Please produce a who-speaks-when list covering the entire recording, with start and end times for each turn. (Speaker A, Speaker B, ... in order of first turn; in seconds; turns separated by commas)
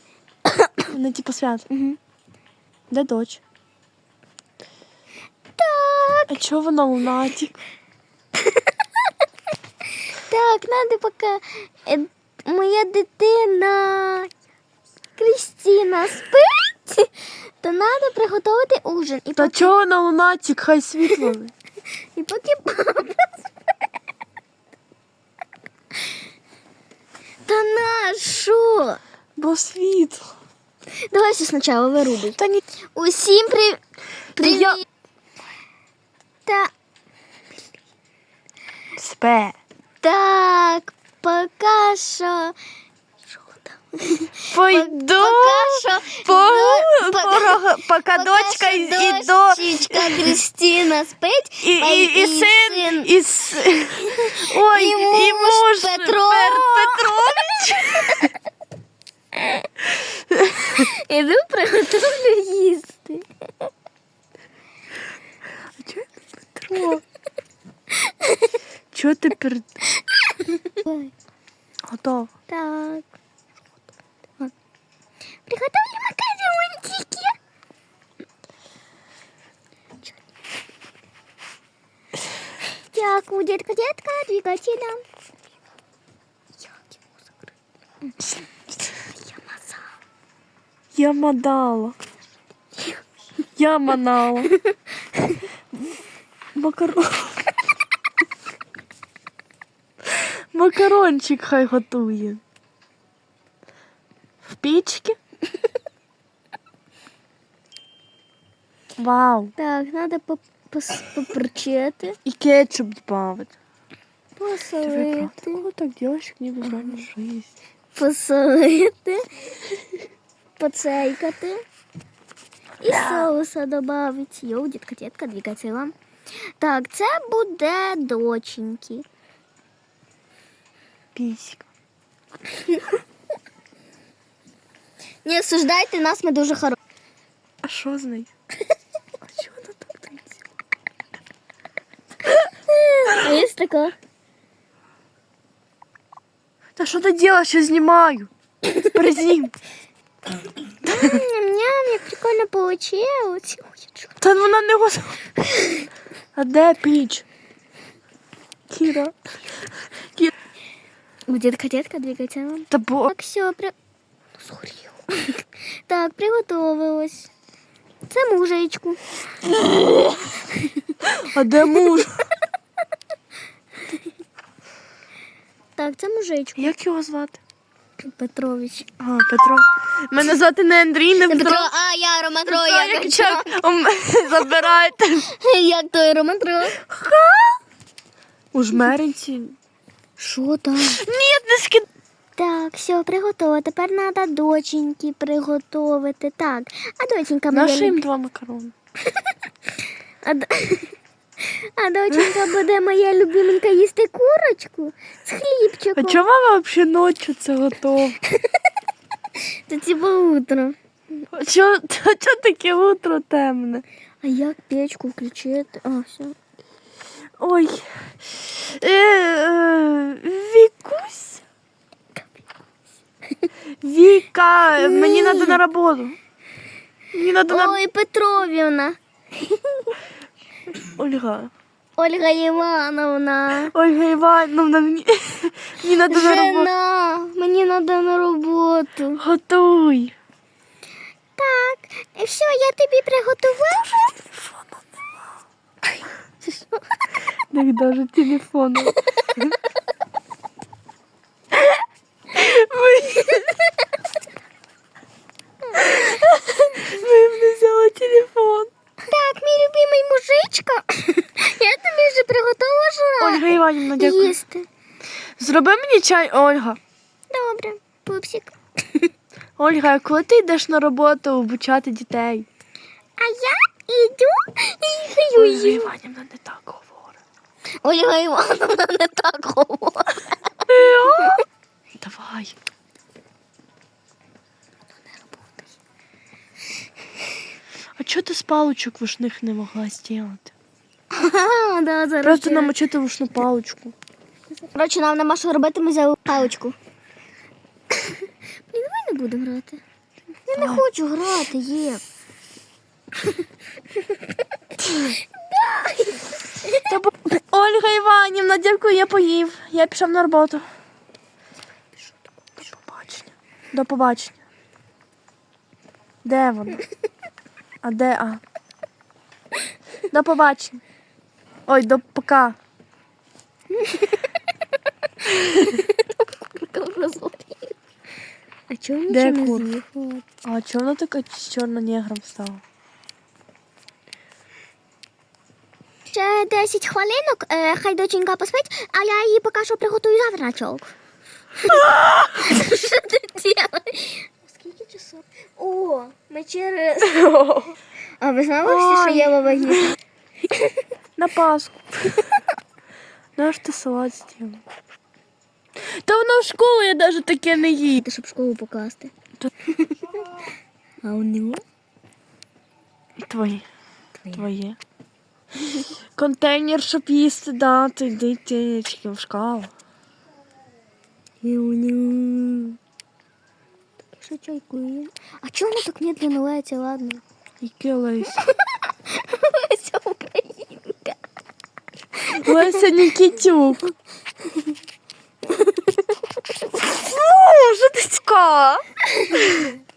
Speaker A: 0.5-0.9, Speaker B: 0.9-1.7, Speaker A: 1.7-2.0, Speaker B: 2.9-3.4, Speaker A: 5.6-6.3, Speaker B: 6.3-7.6, Speaker A: 10.3-14.3, Speaker A: 15.2-19.7, Speaker B: 19.4-21.5, Speaker A: 22.1-23.4, Speaker A: 27.4-29.0, Speaker B: 29.4-30.3, Speaker A: 31.1-32.4, Speaker A: 33.0-33.8, Speaker A: 34.4-34.8, Speaker B: 34.4-34.8, Speaker A: 36.5-36.7, Speaker B: 39.0-39.6, Speaker A: 40.0-42.5, Speaker A: 43.6-53.1, Speaker B: 44.5-50.4, Speaker B: 51.6-58.3, Speaker A: 54.1-58.3, Speaker A: 59.3-59.7, Speaker B: 60.3-60.6, Speaker A: 60.6-63.7, Speaker B: 65.8-67.0, Speaker A: 67.9-68.6, Speaker B: 68.9-69.8, Speaker A: 70.1-71.1, Speaker B: 71.9-72.3, Speaker A: 72.5-73.1, Speaker A: 75.5-77.4, Speaker A: 82.9-85.0, Speaker A: 88.9-89.8, Speaker B: 91.0-92.0, Speaker B: 93.6-94.5, Speaker A: 95.2-95.4, Speaker B: 96.5-97.5, Speaker B: 100.2-102.4, Speaker B: 104.5-105.2, Speaker B: 109.0-109.5, Speaker A: 109.6-112.2, Speaker B: 112.2-113.5, Speaker A: 114.4-115.7, Speaker B: 114.8-117.5, Speaker A: 118.0-119.2, Speaker A: 120.6-121.6, Speaker A: 122.8-126.0, Speaker B: 122.8-123.3, Speaker A: 126.6-129.1, Speaker B: 131.2-131.7, Speaker A: 135.2-136.8, Speaker B: 137.6-138.3, Speaker B: 139.2-140.3, Speaker A: 142.4-143.9, Speaker B: 146.8-148.3, Speaker B: 148.8-149.5, Speaker A: 150.8-154.1, Speaker B: 154.2-155.3, Speaker B: 156.3-157.2, Speaker B: 158.7-159.2, Speaker A: 161.3-163.8, Speaker B: 162.7-163.1, Speaker A: 164.4-167.3, Speaker A: 168.1-169.6, Speaker A: 170.5-170.8, Speaker B: 171.0-172.2, Speaker A: 175.8-176.7, Speaker B: 176.6-177.4, Speaker A: 178.0-178.9, Speaker B: 179.0-181.7, Speaker A: 181.3-183.6, Speaker B: 182.5-185.3, Speaker A: 185.3-186.9, Speaker B: 186.9-187.5, Speaker B: 188.5-189.6, Speaker A: 190.2-191.0, Speaker B: 190.8-191.9, Speaker A: 192.4-198.0, Speaker B: 197.5-198.7, Speaker A: 200.2-206.2, Speaker B: 206.0-208.2, Speaker A: 209.4-210.8, Speaker B: 211.3-213.8, Speaker A: 214.2-216.4, Speaker B: 217.4-221.4, Speaker B: 223.8-226.2, Speaker A: 224.8-225.6, Speaker B: 227.1-227.8, Speaker A: 227.5-230.0, Speaker B: 230.8-231.5, Speaker A: 232.0-233.7, Speaker B: 233.7-236.7, Speaker A: 236.1-239.2, Speaker B: 239.2-240.1, Speaker A: 241.4-244.0, Speaker B: 243.7-244.9, Speaker A: 246.4-246.8, Speaker B: 247.5-249.6, Speaker B: 252.3-253.6, Speaker B: 255.8-258.7, Speaker A: 259.1-264.7, Speaker B: 263.2-264.4, Speaker B: 265.4-266.8, Speaker A: 267.3-269.1, Speaker B: 269.6-272.5, Speaker A: 273.2-275.9, Speaker B: 275.4-277.2, Speaker A: 277.8-280.3, Speaker B: 280.7-281.4, Speaker A: 281.0-281.4, Speaker B: 282.0-282.6, Speaker B: 288.0-290.5, Speaker A: 291.1-292.7, Speaker B: 292.2-293.9, Speaker A: 294.7-296.8, Speaker A: 297.9-299.8, Speaker A: 300.5-302.0, Speaker B: 300.6-300.8, Speaker A: 304.8-307.0, Speaker B: 306.9-310.7, Speaker B: 312.6-314.4, Speaker B: 316.2-316.8, Speaker B: 317.8-318.4, Speaker B: 320.1-320.8, Speaker B: 321.7-322.6, Speaker A: 323.7-324.2, Speaker A: 325.2-327.8, Speaker A: 328.7-330.2, Speaker B: 329.1-329.7, Speaker B: 330.4-332.6, Speaker A: 336.1-340.9, Speaker A: 341.6-347.6, Speaker A: 348.2-350.9, Speaker B: 348.6-349.3, Speaker B: 351.2-352.3, Speaker B: 353.4-354.6, Speaker B: 355.8-358.0, Speaker A: 357.9-359.1, Speaker A: 359.8-360.2, Speaker A: 361.0-361.6, Speaker B: 363.2-363.7, Speaker B: 364.3-364.8, Speaker B: 366.2-369.7, Speaker A: 371.4-372.8, Speaker A: 374.1-377.2, Speaker B: 377.6-378.4, Speaker A: 378.4-381.2, Speaker A: 382.3-382.7, Speaker B: 382.3-383.9, Speaker A: 385.5-386.0, Speaker B: 386.9-388.8, Speaker A: 389.2-389.6